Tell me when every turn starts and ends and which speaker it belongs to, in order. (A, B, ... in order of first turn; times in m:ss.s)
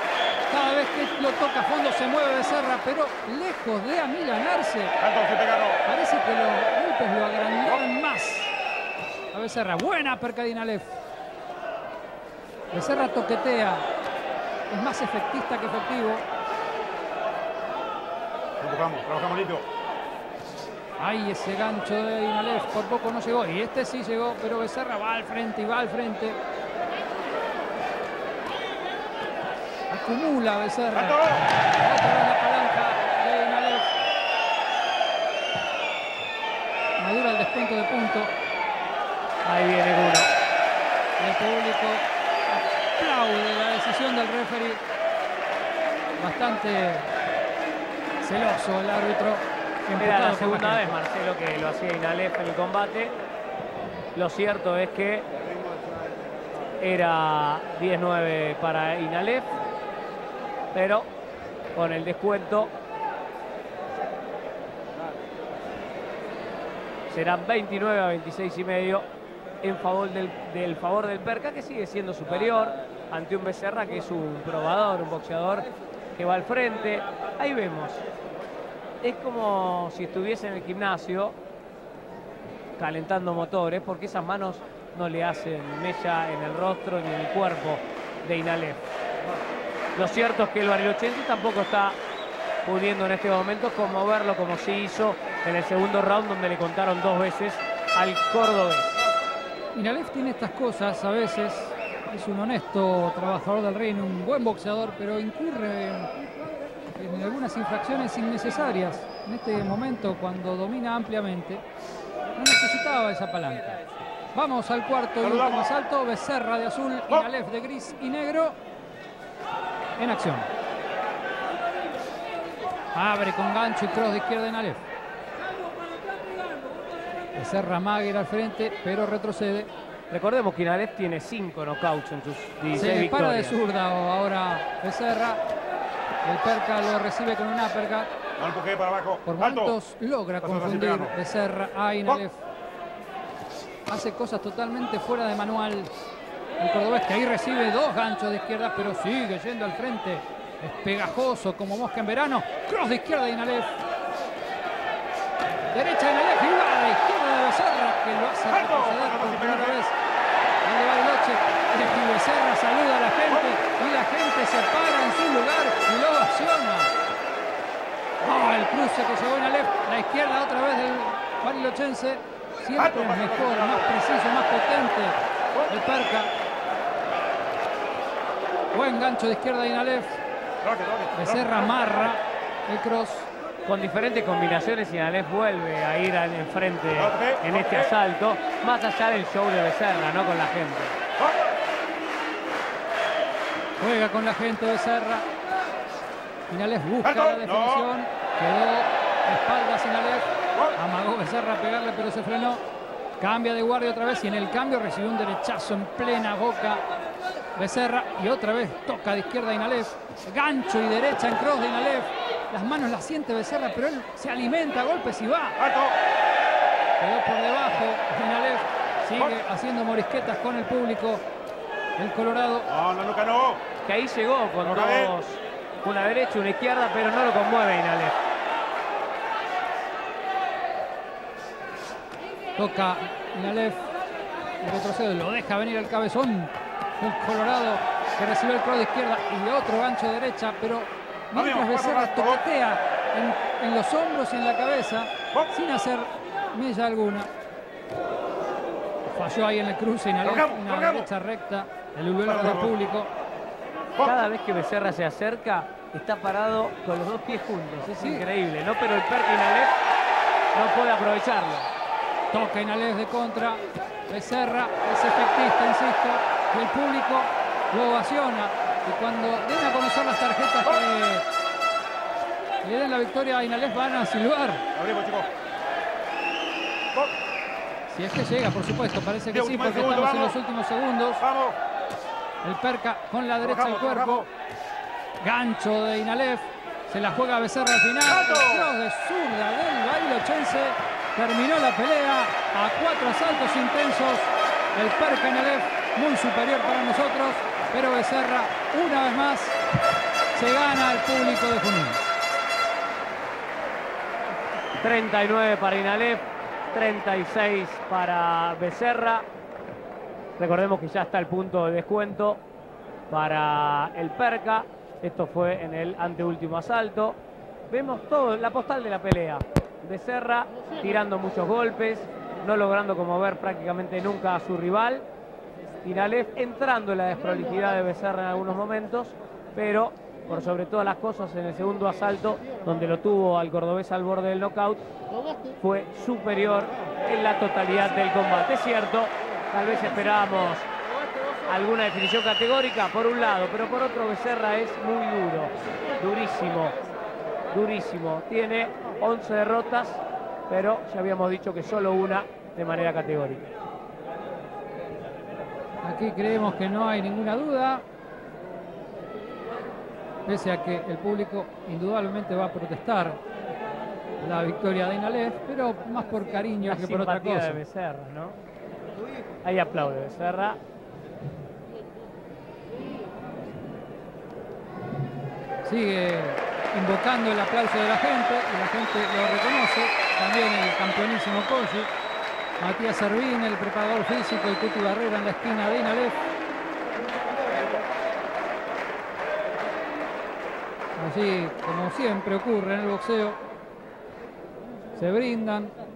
0:00.5-0:05.0 A
0:05.0-0:05.8 B
0:05.8-0:08.5 A
0:09.3-0:10.9 A
0:12.7-0:13.8 A
0:14.7-0:16.2 A
0:18.6-0:19.6 B
0:21.0-0:26.4 A
0:29.9-0:33.9 A
0:31.0-0:31.4 B
0:37.0-0:38.3 A
0:39.4-0:40.3 C
0:41.2-0:44.8 A
0:46.2-0:47.1 A
0:48.2-0:50.9 A
0:50.0-0:53.2 C
0:54.2-0:55.3 C
0:56.8-0:59.5 C
1:00.7-1:01.1 C
1:01.8-1:02.7 C
1:07.1-1:09.1 C
1:09.6-1:18.0 C
1:19.0-1:21.4 C
1:22.8-1:28.9 C
1:30.0-1:32.0 C
1:32.6-1:38.9 C
1:39.7-1:46.1 A
1:47.0-1:51.6 A
1:52.4-1:53.8 A
1:54.3-1:58.6 A
1:55.2-1:55.7 B
2:00.0-2:00.5 A
2:02.9-2:04.8 A
2:07.4-2:09.7 A
2:10.1-2:13.6 C
2:12.7-2:15.4 A
2:16.2-2:18.1 A
2:18.4-2:19.8 B
2:19.2-2:22.4 A
2:20.4-2:21.1 B
2:23.9-2:26.0 A
2:26.6-2:33.7 A
2:35.7-2:40.0 A
2:38.5-2:39.8 B
2:40.6-2:46.9 A
2:48.2-2:55.2 A
2:52.8-2:53.9 B
2:55.7-2:56.3 A
2:58.7-3:00.2 A
3:00.6-3:02.1 B
3:01.1-3:03.3 A
3:03.6-3:11.0 C
3:07.0-3:07.9 B
3:11.2-3:11.5 B
3:13.8-3:15.3 A
3:16.5-3:22.6 A
3:17.0-3:17.9 B
3:23.2-3:26.8 A
3:27.6-3:35.6 A
3:35.6-3:36.0 B
3:37.0-3:41.2 A
3:42.0-3:42.7 A
3:42.7-3:43.6 B
3:43.8-3:48.2 C
3:44.6-3:45.1 B
3:52.6-3:53.9 A
3:54.6-4:07.3 A
4:01.3-4:02.4 B
4:09.1-4:13.1 A
4:10.2-4:11.1 B
4:12.2-4:12.7 B
4:14.0-4:19.8 C
4:17.9-4:18.3 A
4:20.5-4:21.7 C
4:22.3-4:31.2 A
4:32.6-4:34.6 A
4:34.7-4:35.3 B
4:37.9-4:41.2 A
4:39.3-4:40.4 B
4:41.2-4:41.6 B
4:42.4-4:44.3 A
4:43.4-4:44.3 B
4:45.2-4:59.6 A
4:48.1-4:48.7 B
5:00.3-5:02.0 A
5:04.8-5:09.3 C
5:10.4-5:12.4 C
5:13.1-5:25.1 C
5:25.8-5:34.8 C
5:35.6-5:40.7 C
5:41.5-5:46.8 C
5:47.5-5:53.5 C
5:55.8-5:57.8 A
6:00.3-6:03.2 A
6:04.2-6:07.6 A
6:06.6-6:08.4 C
6:09.4-6:10.6 C
6:15.6-6:21.9 A
6:22.6-6:26.2 A
6:31.0-6:33.4 A
6:35.0-6:35.7 A